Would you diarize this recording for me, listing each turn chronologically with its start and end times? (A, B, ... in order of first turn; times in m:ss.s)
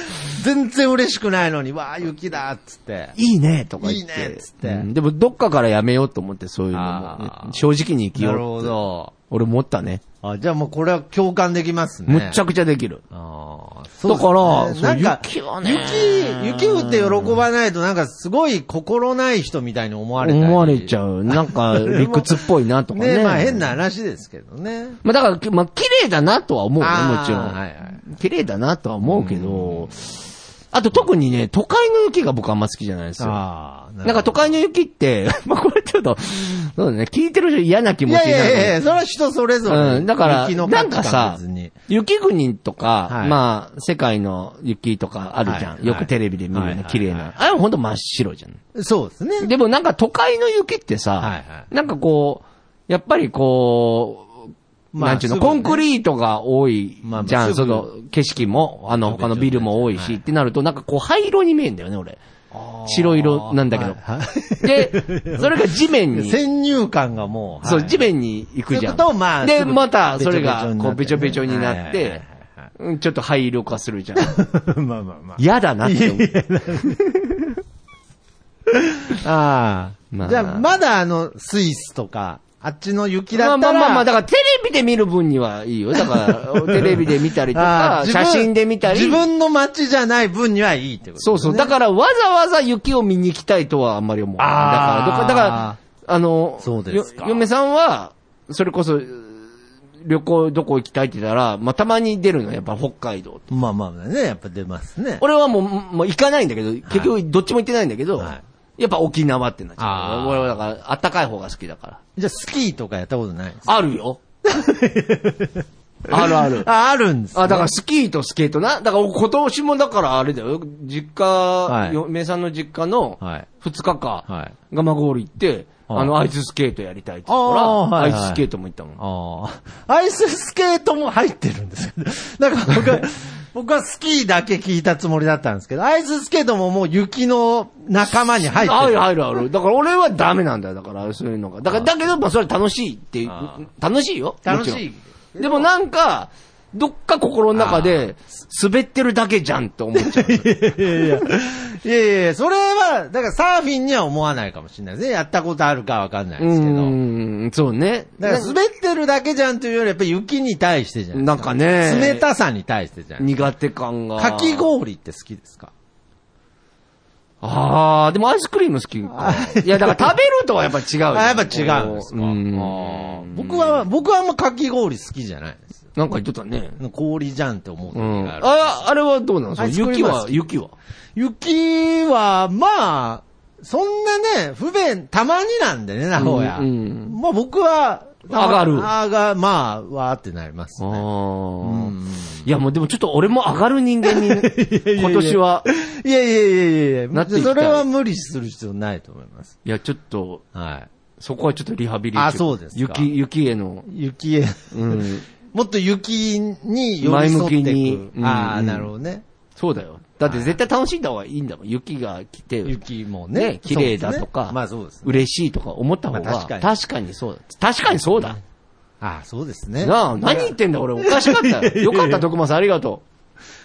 0:00.2-0:03.2 A
0:03.2-0:08.8 B
0:03.8-0:04.9 A
0:06.7-0:07.6 A
0:08.2-0:09.1 A
0:09.3-0:10.0 B
0:10.2-0:12.4 A
0:12.1-0:13.0 B
0:13.1-0:25.0 A
0:14.1-0:17.4 B
0:20.2-0:23.7 B
0:25.0-0:30.1 B
0:26.8-0:28.0 A
0:29.1-0:29.9 A
0:30.7-0:33.4 B
0:33.2-0:34.6 A
0:34.0-0:38.8 B
0:38.1-0:41.7 A
0:39.7-0:48.6 B
0:43.1-0:43.4 A
0:45.4-0:47.3 A
0:48.8-0:49.5 A
0:49.4-1:02.2 B
0:51.2-0:51.7 A
0:54.9-0:55.8 A
0:57.0-0:57.9 A
0:58.8-1:00.2 A
1:02.5-1:08.1 A
1:02.8-1:04.0 B
1:04.6-1:06.4 B
1:07.6-1:12.2 B
1:08.7-1:12.3 A
1:12.8-1:14.3 B
1:14.2-1:17.0 A
1:15.4-1:17.5 B
1:18.7-1:24.1 A
1:20.1-1:20.7 B
1:23.3-1:29.2 B
1:26.0-1:31.7 A
1:31.2-1:39.5 B
1:34.4-1:35.8 A
1:36.6-1:37.5 A
1:40.0-1:43.5 B
1:43.5-1:45.2 A
1:45.2-1:52.0 B
1:49.8-1:50.6 A
1:52.2-1:53.8 A
1:53.7-1:54.2 B
1:54.4-1:57.7 A
1:56.1-1:56.7 B
1:57.4-2:09.0 B
2:01.7-2:02.0 A
2:03.2-2:03.5 A
2:04.3-2:04.6 A
2:05.9-2:06.2 A
2:07.3-2:08.4 A
2:09.0-2:19.0 A
2:18.4-2:24.8 B
2:23.3-2:23.6 A
2:24.4-2:25.7 A
2:25.4-2:31.3 B
2:27.5-2:28.1 A
2:30.0-2:37.0 A
2:36.4-2:38.6 B
2:38.2-2:43.5 A
2:41.1-2:42.3 B
2:43.2-2:44.7 B
2:44.2-2:45.7 A
2:47.4-2:53.8 B
2:49.1-2:50.1 A
2:51.1-2:55.8 A
2:56.0-2:56.8 B
2:56.8-2:58.8 A
2:57.9-3:00.7 B
2:59.6-3:00.4 A
3:01.2-3:11.1 A
3:06.2-3:07.2 B
3:08.3-3:08.9 B
3:10.8-3:15.6 B
3:11.6-3:12.5 A
3:14.0-3:19.6 A
3:17.1-3:17.9 B
3:19.6-3:20.4 B
3:20.5-3:20.9 A
3:21.2-3:23.9 B
3:22.1-3:23.1 A
3:23.9-3:29.2 A
3:24.7-3:25.2 B
3:27.0-3:28.9 B
3:29.6-3:32.8 B
3:30.2-3:30.6 A
3:32.6-3:35.3 A
3:33.3-3:38.4 B
3:36.1-3:36.7 A
3:38.0-3:38.4 A
3:39.0-3:42.3 A
3:39.8-3:43.0 B